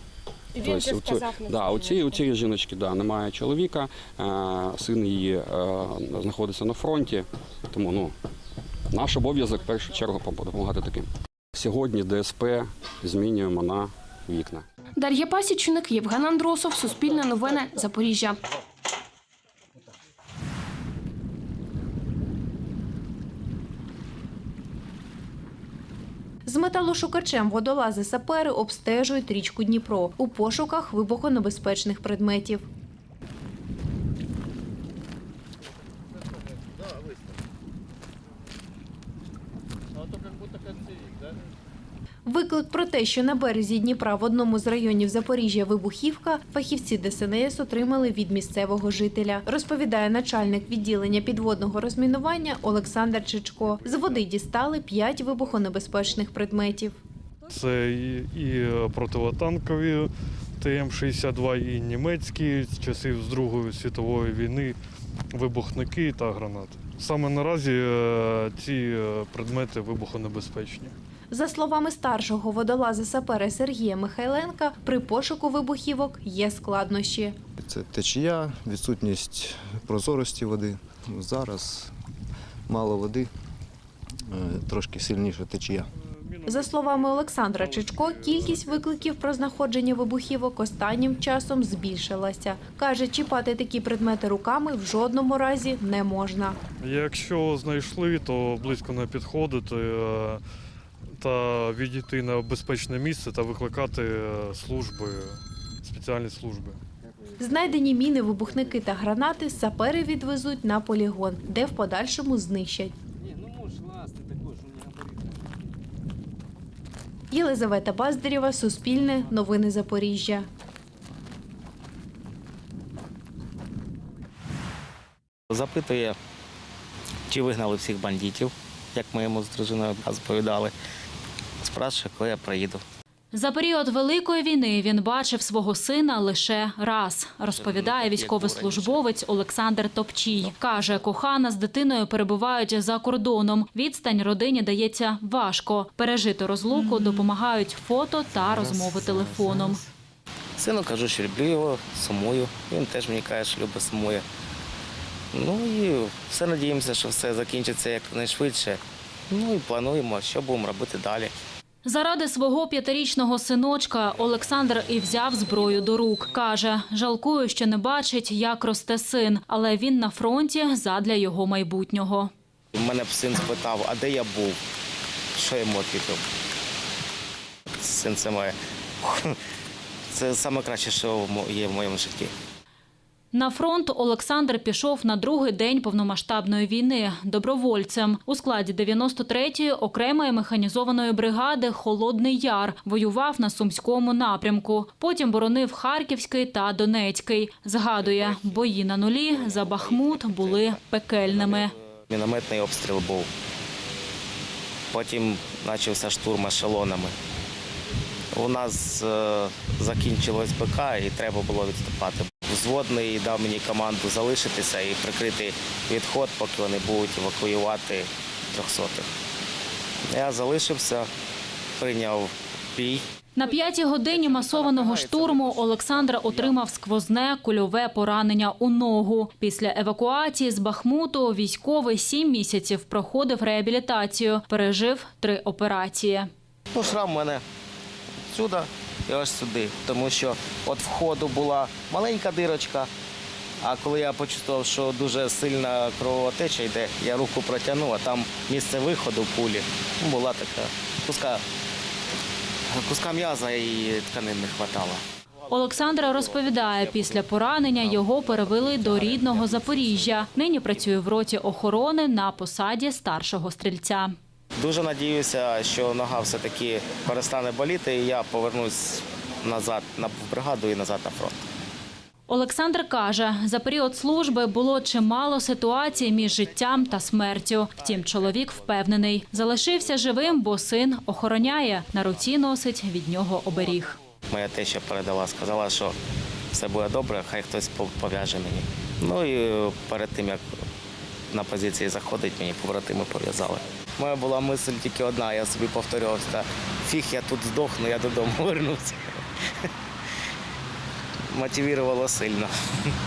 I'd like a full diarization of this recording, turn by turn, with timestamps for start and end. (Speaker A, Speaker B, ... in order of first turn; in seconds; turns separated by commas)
Speaker A: 0.6-8.2, Speaker B: 0.6-1.6, Speaker A: 8.9-14.7, Speaker B: 15.0-18.4, Speaker C: 26.5-32.6, Speaker C: 42.3-57.0, Speaker D: 57.5-64.8, Speaker D: 65.3-71.0, Speaker C: 71.3-77.4, Speaker E: 77.6-81.9, Speaker E: 82.7-83.3, Speaker E: 84.3-85.9, Speaker D: 86.1-89.0, Speaker C: 86.5-96.6, Speaker D: 96.8-100.4, Speaker D: 101.2-106.8, Speaker C: 107.4-112.9, Speaker C: 117.3-120.5, Speaker F: 125.5-126.2, Speaker F: 127.3-130.7, Speaker F: 131.6-132.8, Speaker G: 133.3-149.8, Speaker F: 137.6-139.0, Speaker F: 150.6-154.2, Speaker F: 155.3-161.3, Speaker G: 161.8-172.3, Speaker F: 172.8-174.6, Speaker F: 175.4-176.2, Speaker F: 177.8-179.3, Speaker F: 180.1-182.3, Speaker G: 183.3-201.7, Speaker F: 198.0-198.7, Speaker F: 199.3-203.3, Speaker F: 204.9-207.1, Speaker F: 208.3-219.1, Speaker F: 220.1-221.1, Speaker F: 221.8-223.0, Speaker G: 223.4-236.3, Speaker F: 224.1-226.6, Speaker F: 236.7-237.4, Speaker F: 238.3-242.9, Speaker F: 243.6-251.4, Speaker F: 252.8-255.0, Speaker G: 255.5-264.1, Speaker F: 255.8-257.2, Speaker F: 257.8-260.1, Speaker F: 264.6-271.4, Speaker G: 272.3-284.0, Speaker F: 277.8-280.3, Speaker F: 284.3-285.9, Speaker F: 286.5-290.4, Speaker F: 291.3-299.2, Speaker F: 301.3-302.5